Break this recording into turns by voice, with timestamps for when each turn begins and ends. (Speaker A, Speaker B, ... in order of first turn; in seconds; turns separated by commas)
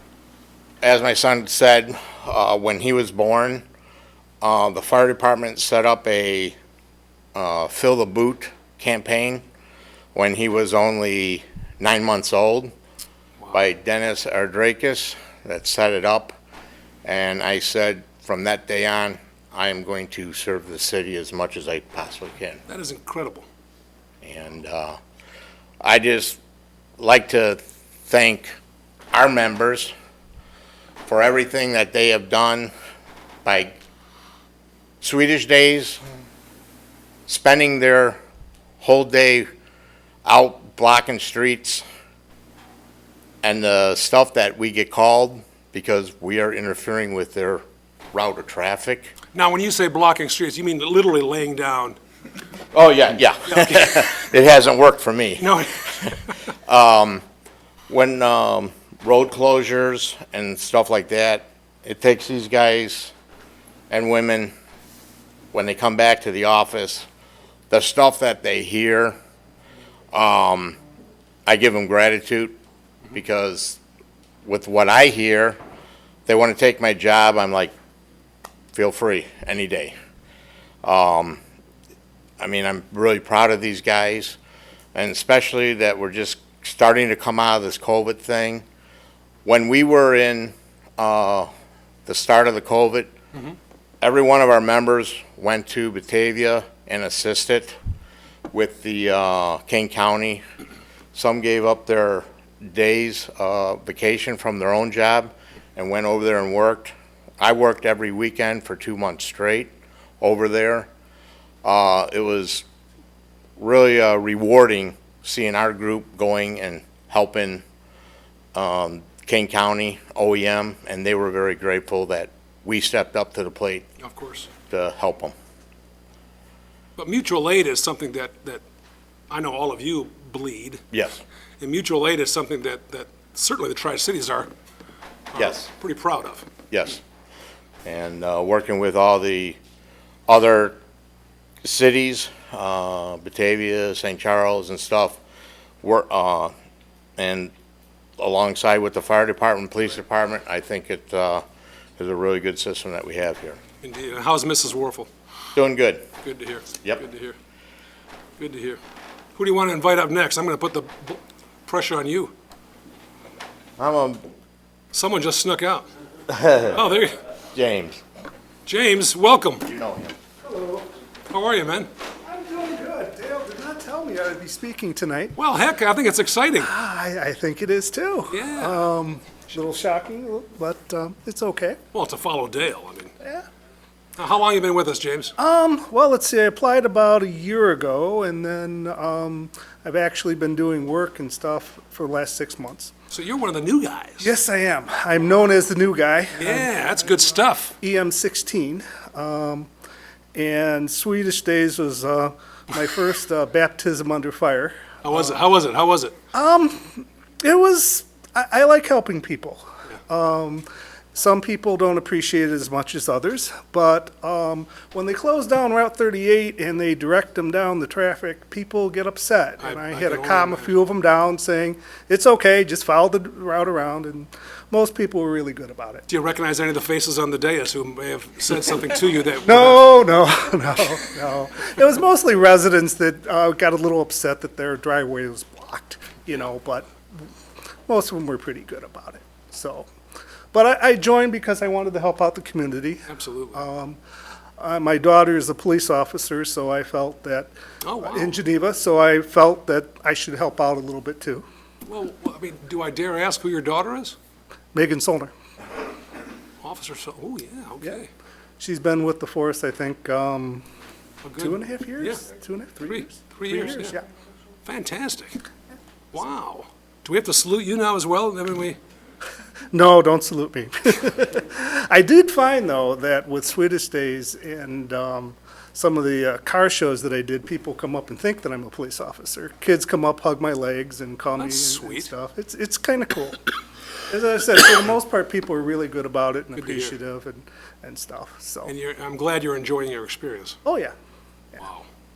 Speaker A: 0.8-3.6, Speaker A: 4.4-6.6, Speaker A: 7.3-9.4, Speaker A: 10.1-12.7, Speaker A: 13.5-16.4, Speaker A: 17.0-22.6, Speaker B: 22.7-23.4, Speaker A: 24.2-25.0, Speaker A: 25.8-26.4, Speaker A: 27.0-28.5, Speaker A: 29.1-29.9, Speaker A: 31.1-32.7, Speaker A: 33.4-33.8, Speaker A: 35.0-36.0, Speaker A: 37.3-38.2, Speaker A: 38.8-39.5, Speaker A: 40.2-41.8, Speaker A: 43.4-47.6, Speaker A: 48.1-49.1, Speaker B: 49.3-52.0, Speaker A: 52.7-56.1, Speaker B: 53.5-54.1, Speaker B: 55.4-56.3, Speaker A: 56.7-57.2, Speaker A: 57.9-63.1, Speaker A: 63.9-64.5, Speaker A: 65.5-67.1, Speaker A: 67.7-69.2, Speaker A: 70.1-70.8, Speaker A: 71.5-72.5, Speaker A: 73.1-73.8, Speaker A: 74.4-75.6, Speaker A: 76.2-77.7, Speaker A: 78.7-79.9, Speaker A: 80.8-81.4, Speaker A: 82.4-84.4, Speaker A: 84.9-88.6, Speaker A: 89.4-91.5, Speaker A: 92.0-93.1, Speaker A: 94.0-97.8, Speaker A: 98.5-100.4, Speaker A: 101.1-110.9, Speaker A: 111.6-112.6, Speaker A: 113.6-117.6, Speaker A: 118.5-123.9, Speaker B: 124.0-124.5, Speaker A: 124.7-125.3, Speaker B: 127.0-128.6, Speaker B: 129.3-130.8, Speaker A: 130.9-131.2, Speaker B: 131.6-134.5, Speaker B: 135.3-136.4, Speaker A: 135.3-135.7, Speaker A: 136.7-137.0, Speaker A: 137.8-139.6, Speaker A: 140.3-140.8, Speaker A: 141.6-145.2, Speaker A: 145.8-146.5, Speaker A: 147.2-147.5, Speaker A: 148.2-151.4, Speaker A: 152.0-153.6, Speaker B: 153.8-155.1, Speaker A: 155.5-156.0, Speaker B: 156.2-157.3, Speaker B: 158.4-158.8, Speaker B: 159.3-162.3, Speaker A: 163.8-164.2, Speaker B: 164.9-165.9, Speaker A: 166.3-166.8, Speaker B: 166.6-167.1, Speaker A: 167.5-168.0, Speaker B: 168.7-169.6, Speaker A: 169.6-170.1, Speaker C: 170.4-170.9, Speaker B: 171.3-171.9, Speaker C: 172.2-175.3, Speaker B: 175.3-176.7, Speaker C: 176.6-181.8, Speaker B: 178.3-178.8, Speaker B: 181.9-183.1, Speaker B: 184.2-185.3, Speaker C: 185.4-192.9, Speaker B: 193.1-194.3, Speaker C: 194.2-197.2, Speaker B: 196.3-197.8, Speaker C: 197.8-199.7, Speaker C: 200.3-204.7, Speaker B: 205.0-206.1, Speaker C: 206.3-226.1, Speaker B: 219.6-220.7, Speaker B: 226.1-230.0, Speaker C: 229.4-236.9, Speaker C: 237.9-239.9, Speaker C: 240.5-244.0, Speaker B: 243.1-243.6, Speaker C: 244.6-247.5, Speaker B: 247.8-248.4, Speaker C: 248.0-251.4, Speaker B: 251.8-254.2, Speaker C: 254.7-255.3, Speaker B: 256.6-258.1, Speaker C: 258.6-260.6, Speaker B: 261.2-262.2, Speaker C: 261.4-264.0, Speaker B: 262.9-264.0, Speaker B: 264.6-265.4, Speaker B: 266.1-268.8, Speaker C: 269.7-283.4, Speaker B: 281.4-282.1, Speaker C: 284.1-288.7, Speaker B: 286.6-286.9, Speaker B: 288.6-290.6, Speaker C: 290.6-290.9, Speaker B: 291.6-291.9